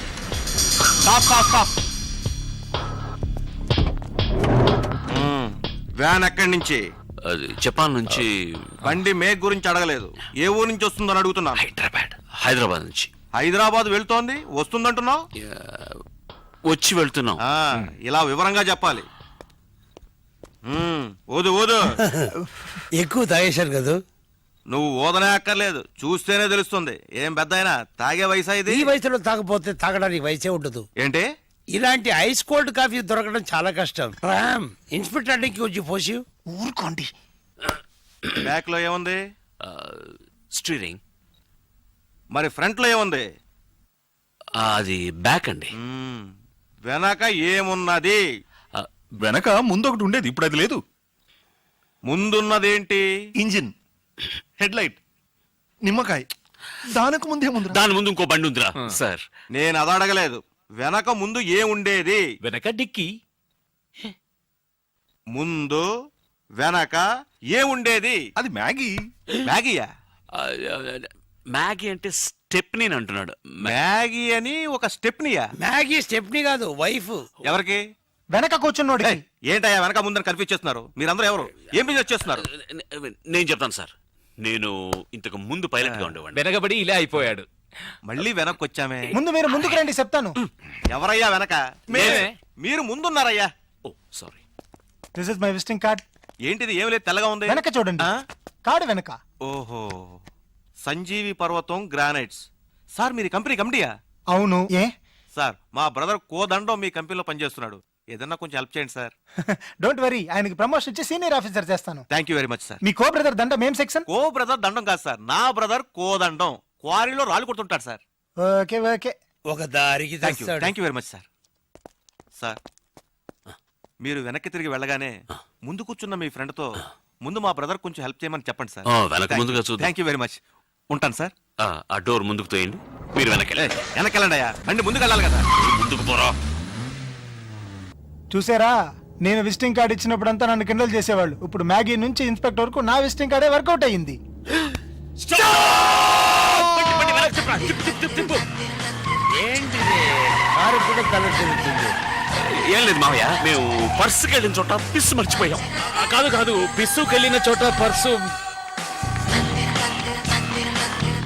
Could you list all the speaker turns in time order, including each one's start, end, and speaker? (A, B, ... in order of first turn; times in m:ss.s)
0:01.0-0:01.7 A
0:05.1-0:06.8 A
0:07.3-0:08.3 B
0:08.8-0:11.6 A
0:11.7-0:12.1 C
0:12.4-0:13.1 B
0:13.4-0:15.2 A
0:15.4-0:16.0 B
0:16.7-0:17.4 B
0:17.4-0:19.0 A
0:20.7-0:21.9 A
0:23.0-0:24.0 D
0:24.7-0:28.9 A
0:28.7-0:30.8 D
0:31.0-0:31.2 A
0:31.8-0:36.2 D
0:36.5-0:37.1 E
0:38.4-0:39.2 A
0:39.6-0:41.0 B
0:42.3-0:43.2 A
0:44.6-0:45.7 B
0:45.8-0:46.2 A
0:46.9-0:48.2 A
0:49.2-0:50.8 F
0:52.1-0:53.0 A
0:53.4-0:53.7 F
0:54.6-0:55.0 F
0:55.8-0:56.2 F
0:56.9-0:57.8 F
0:57.7-0:59.2 B
0:59.5-1:02.2 A
1:02.4-1:03.1 C
1:05.3-1:05.8 A
1:06.6-1:08.2 A
1:08.4-1:09.0 F
1:09.4-1:09.9 A
1:10.4-1:13.8 B
1:13.6-1:15.4 A
1:15.6-1:17.2 D
1:17.4-1:17.8 A
1:18.3-1:19.2 E
1:19.0-1:22.4 A
1:22.3-1:23.9 B
1:24.4-1:26.4 B
1:25.8-1:26.2 A
1:26.3-1:27.5 C
1:28.1-1:29.1 A
1:29.1-1:30.4 E
1:30.9-1:33.5 A
1:31.9-1:32.4 C
1:33.8-1:34.4 B
1:35.2-1:36.0 E
1:36.4-1:38.2 A
1:37.4-1:38.1 E
1:38.7-1:39.2 E
1:39.4-1:40.2 A
1:40.8-1:43.9 A
1:44.3-1:44.9 E
1:45.4-1:49.1 A
1:49.5-1:52.1 E
1:52.1-1:52.8 A
1:52.8-1:54.1 E
1:54.1-1:58.0 A
1:58.4-1:59.1 E
1:59.5-2:00.7 D
2:00.2-2:01.2 A
2:04.0-2:10.4 A
2:08.9-2:09.9 B
2:10.9-2:11.3 A
2:11.6-2:13.7 B
2:13.6-2:15.4 A
2:15.6-2:16.3 B
2:18.3-2:24.2 E
2:25.3-2:28.4 B
2:29.4-2:31.9 D
2:32.4-2:35.7 B
2:35.8-2:38.3 C